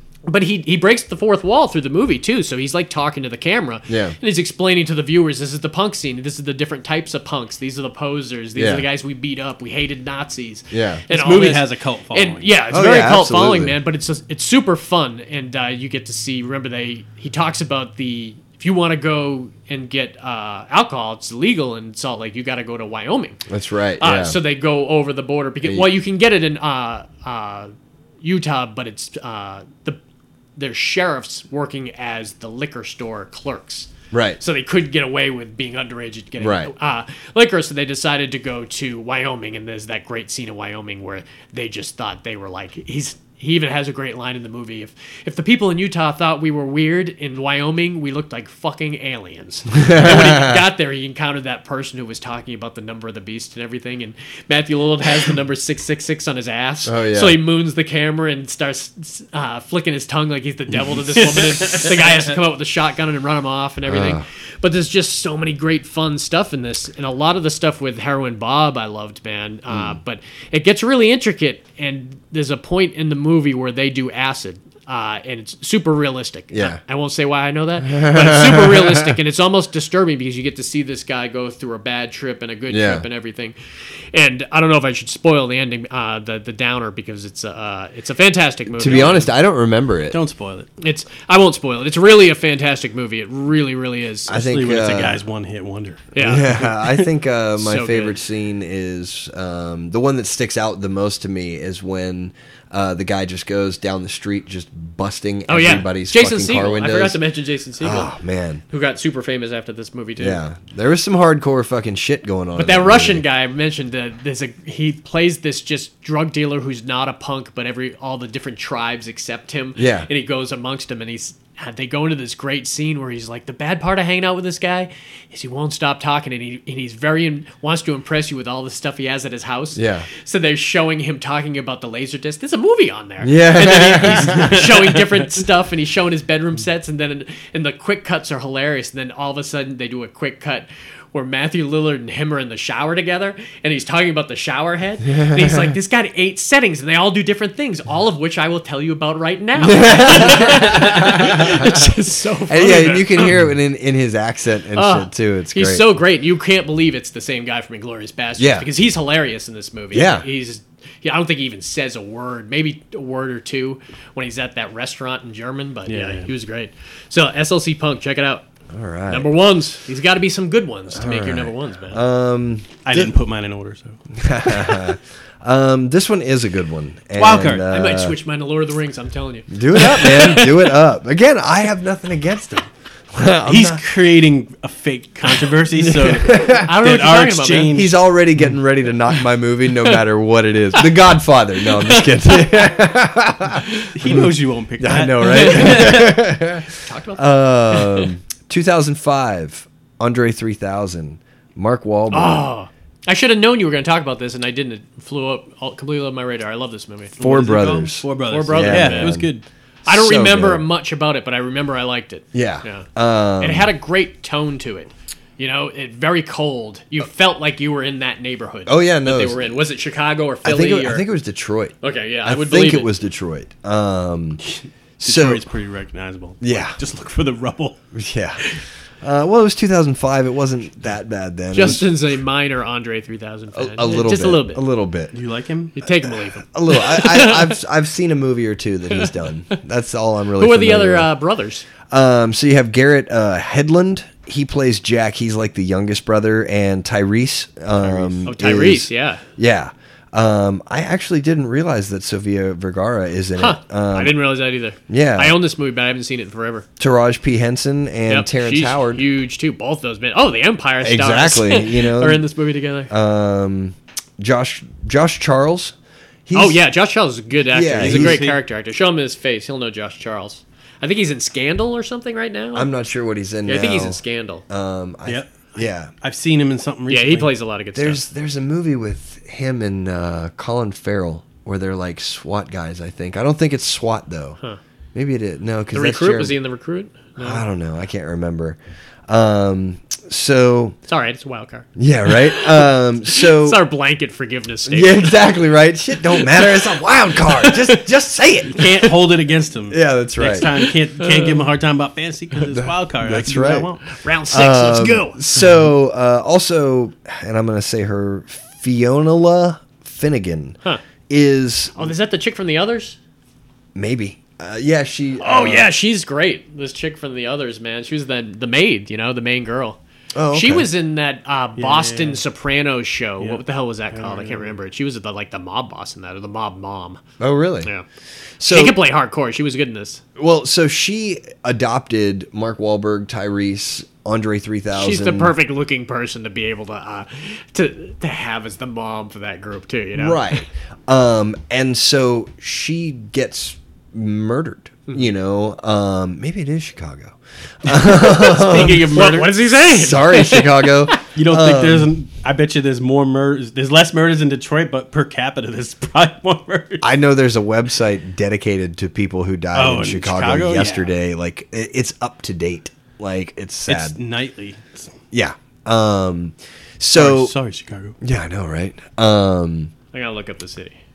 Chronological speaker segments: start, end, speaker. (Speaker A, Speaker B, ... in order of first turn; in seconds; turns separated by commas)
Speaker A: 0.3-23.4, Speaker B: 3.9-4.2, Speaker B: 8.6-8.9, Speaker B: 10.7-11.0, Speaker C: 11.1-12.5, Speaker B: 12.7-13.8, Speaker B: 23.5-24.4, Speaker A: 24.0-30.0, Speaker A: 30.6-83.5, Speaker B: 34.1-34.4, Speaker B: 36.4-36.7, Speaker B: 49.7-50.6, Speaker B: 56.9-57.4, Speaker C: 60.8-62.3, Speaker B: 63.9-64.2, Speaker B: 69.7-70.0, Speaker B: 76.5-76.8, Speaker B: 77.8-79.2, Speaker B: 82.7-83.1, Speaker A: 84.1-89.3, Speaker B: 88.7-90.2, Speaker C: 90.1-90.7, Speaker A: 90.8-94.5, Speaker B: 94.3-95.2, Speaker C: 94.3-96.1, Speaker A: 96.2-96.7, Speaker B: 96.2-107.2, Speaker A: 97.6-98.2, Speaker A: 105.5-108.1, Speaker B: 107.8-108.6, Speaker A: 108.7-110.4, Speaker B: 110.2-113.2, Speaker A: 112.6-153.4, Speaker B: 119.8-120.1, Speaker B: 129.8-130.1, Speaker B: 133.2-134.7, Speaker C: 134.2-135.0, Speaker B: 145.0-145.8, Speaker B: 149.6-151.9, Speaker B: 152.5-155.9, Speaker A: 154.8-168.5, Speaker B: 158.4-158.7, Speaker B: 159.9-160.3, Speaker C: 165.9-166.3, Speaker B: 168.7-169.3, Speaker A: 169.1-172.0, Speaker B: 170.9-173.1, Speaker C: 172.8-174.0, Speaker B: 174.2-178.2, Speaker C: 177.2-177.7, Speaker A: 177.7-180.7, Speaker B: 179.5-183.8, Speaker C: 183.5-188.0, Speaker B: 185.7-186.7, Speaker A: 186.5-187.8, Speaker B: 187.7-194.3, Speaker A: 191.8-192.1, Speaker C: 193.9-196.1, Speaker B: 194.8-202.4, Speaker A: 195.2-196.2, Speaker A: 196.8-198.1, Speaker A: 202.1-207.2, Speaker C: 207.2-209.4, Speaker B: 207.2-209.3, Speaker A: 208.3-209.2, Speaker A: 209.9-212.9, Speaker B: 209.9-210.6, Speaker B: 212.3-213.7, Speaker A: 213.4-221.1, Speaker B: 218.7-219.6, Speaker B: 220.4-224.4, Speaker A: 221.8-222.9, Speaker C: 224.4-227.8, Speaker B: 225.0-225.4, Speaker B: 226.4-226.8, Speaker B: 227.9-228.5, Speaker B: 229.0-231.9, Speaker A: 231.5-234.6, Speaker B: 233.5-235.1, Speaker C: 235.1-235.8, Speaker A: 235.8-237.6, Speaker B: 236.0-241.1, Speaker A: 240.4-241.7, Speaker B: 241.9-254.1, Speaker C: 247.8-248.2, Speaker A: 248.3-249.2, Speaker A: 253.4-256.7, Speaker B: 254.9-255.4, Speaker B: 256.8-259.0, Speaker A: 258.1-262.9, Speaker B: 260.8-262.2, Speaker B: 262.9-265.8, Speaker B: 266.3-266.6, Speaker A: 266.3-272.7, Speaker B: 267.5-268.2, Speaker C: 267.8-268.4, Speaker B: 272.6-275.9, Speaker A: 273.5-274.4, Speaker C: 275.1-277.3, Speaker A: 276.9-278.0, Speaker B: 277.8-284.4, Speaker B: 284.9-286.4, Speaker A: 285.7-287.4, Speaker B: 287.2-290.8, Speaker A: 290.9-295.3, Speaker B: 291.8-293.6, Speaker B: 294.7-298.9, Speaker A: 296.2-296.6, Speaker A: 297.3-297.8, Speaker C: 298.5-303.8, Speaker B: 299.7-300.5, Speaker A: 301.0-301.4, Speaker B: 302.5-303.7, Speaker A: 303.9-305.2, Speaker B: 304.3-310.6, Speaker B: 311.1-311.9, Speaker A: 311.8-313.0, Speaker B: 313.8-315.7, Speaker A: 315.2-319.8, Speaker B: 320.1-320.7, Speaker A: 320.3-327.0, Speaker C: 321.6-322.2, Speaker C: 323.9-324.6, Speaker B: 327.2-327.7, Speaker B: 328.4-328.8, Speaker A: 328.5-330.0, Speaker B: 330.2-335.3, Speaker A: 334.7-340.4, Speaker B: 339.9-348.9, Speaker C: 347.7-349.4, Speaker A: 348.9-351.0, Speaker B: 349.5-351.9, Speaker C: 351.1-356.9, Speaker B: 356.8-363.9, Speaker C: 359.5-360.9, Speaker C: 363.7-364.9, Speaker B: 365.1-367.3, Speaker C: 366.9-368.0, Speaker B: 368.0-369.7, Speaker A: 369.9-370.8